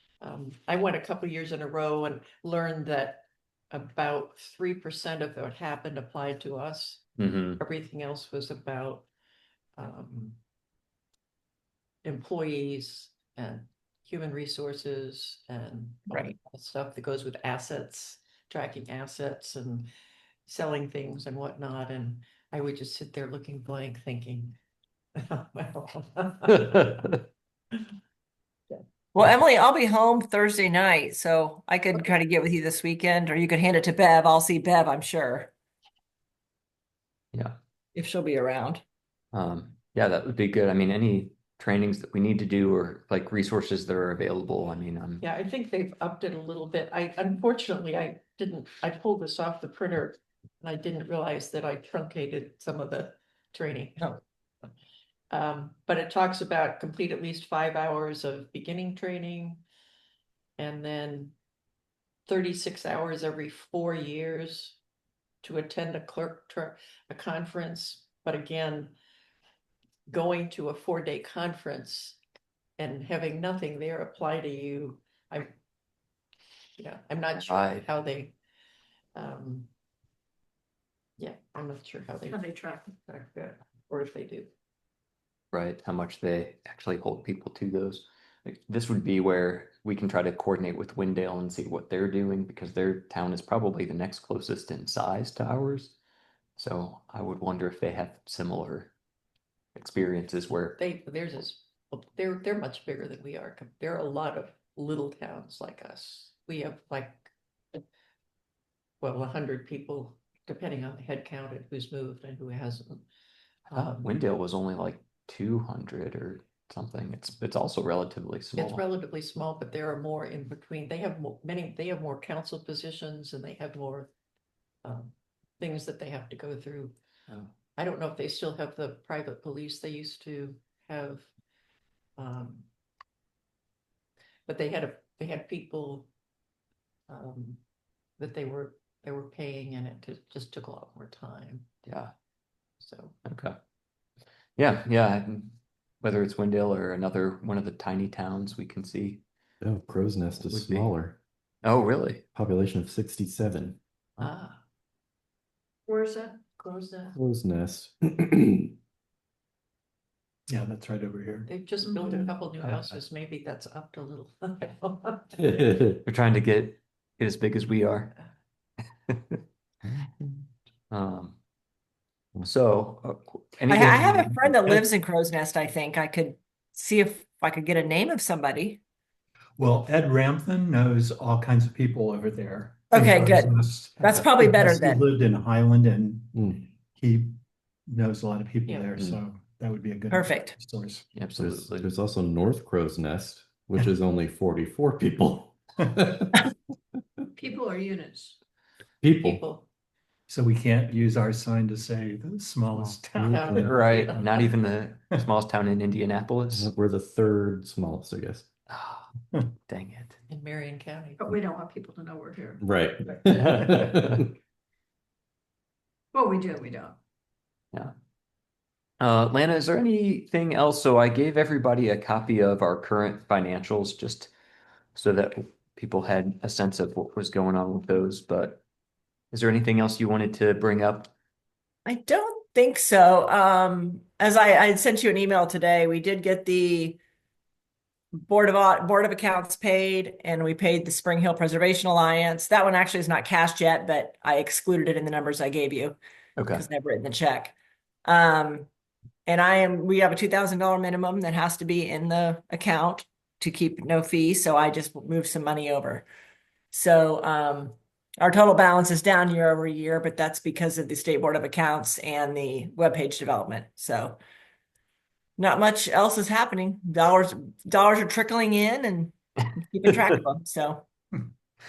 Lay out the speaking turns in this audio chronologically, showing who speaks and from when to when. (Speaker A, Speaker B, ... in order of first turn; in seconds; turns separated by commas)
Speaker A: 0.2-7.1, Speaker B: 7.2-7.6, Speaker A: 7.6-9.1, Speaker A: 9.8-10.4, Speaker A: 12.0-19.9, Speaker A: 20.4-24.6, Speaker A: 25.1-27.2, Speaker C: 29.1-35.5, Speaker C: 37.9-38.8, Speaker B: 39.3-45.2, Speaker A: 45.2-54.1, Speaker A: 55.3-59.6, Speaker A: 60.6-61.3, Speaker A: 62.3-64.8, Speaker A: 65.4-68.9, Speaker A: 70.1-72.2, Speaker A: 72.8-75.5, Speaker A: 76.8-78.3, Speaker B: 77.3-77.9, Speaker A: 79.1-79.7, Speaker A: 81.2-84.5, Speaker D: 82.3-82.9, Speaker B: 85.5-96.0, Speaker B: 96.6-98.9, Speaker B: 99.7-100.8, Speaker A: 100.8-107.3, Speaker A: 109.0-113.0, Speaker A: 113.7-114.1, Speaker B: 113.7-118.8, Speaker A: 118.6-124.1, Speaker A: 124.8-127.0, Speaker A: 127.7-131.3, Speaker A: 132.2-132.7, Speaker A: 134.5-136.1, Speaker A: 137.1-137.6, Speaker A: 138.2-141.7, Speaker B: 141.8-142.1, Speaker A: 142.8-143.2, Speaker B: 143.2-143.6, Speaker B: 144.6-149.2, Speaker E: 149.6-151.2, Speaker B: 150.5-150.9, Speaker B: 151.6-152.2, Speaker E: 152.3-153.8, Speaker A: 154.2-154.6, Speaker D: 155.9-156.9, Speaker A: 156.7-157.1, Speaker E: 157.1-158.7, Speaker F: 160.5-161.5, Speaker A: 161.5-165.6, Speaker D: 161.8-162.2, Speaker E: 165.4-166.0, Speaker B: 166.0-168.1, Speaker B: 169.1-169.4, Speaker B: 170.9-171.4, Speaker B: 172.4-174.3, Speaker C: 173.7-178.8, Speaker F: 179.6-191.0, Speaker C: 182.9-185.1, Speaker E: 186.3-186.6, Speaker A: 188.7-188.9, Speaker C: 190.1-190.6, Speaker B: 191.1-191.9, Speaker E: 191.4-196.5, Speaker D: 197.4-198.3, Speaker E: 199.0-199.4, Speaker A: 199.0-199.7, Speaker F: 200.3-203.8, Speaker E: 203.2-203.7, Speaker A: 203.2-204.4, Speaker B: 203.6-206.7, Speaker E: 206.5-208.5, Speaker B: 208.7-209.1, Speaker B: 209.7-210.2, Speaker A: 210.3-211.3, Speaker D: 211.2-212.6, Speaker E: 212.6-214.3, Speaker B: 213.3-214.1, Speaker D: 216.1-217.0, Speaker B: 219.0-224.3, Speaker B: 224.9-228.6, Speaker B: 229.3-231.1, Speaker C: 231.8-237.0, Speaker C: 238.1-246.0, Speaker B: 246.4-246.6, Speaker C: 246.5-247.5, Speaker C: 248.0-248.7, Speaker C: 249.2-256.1, Speaker C: 256.7-264.2, Speaker C: 265.4-270.8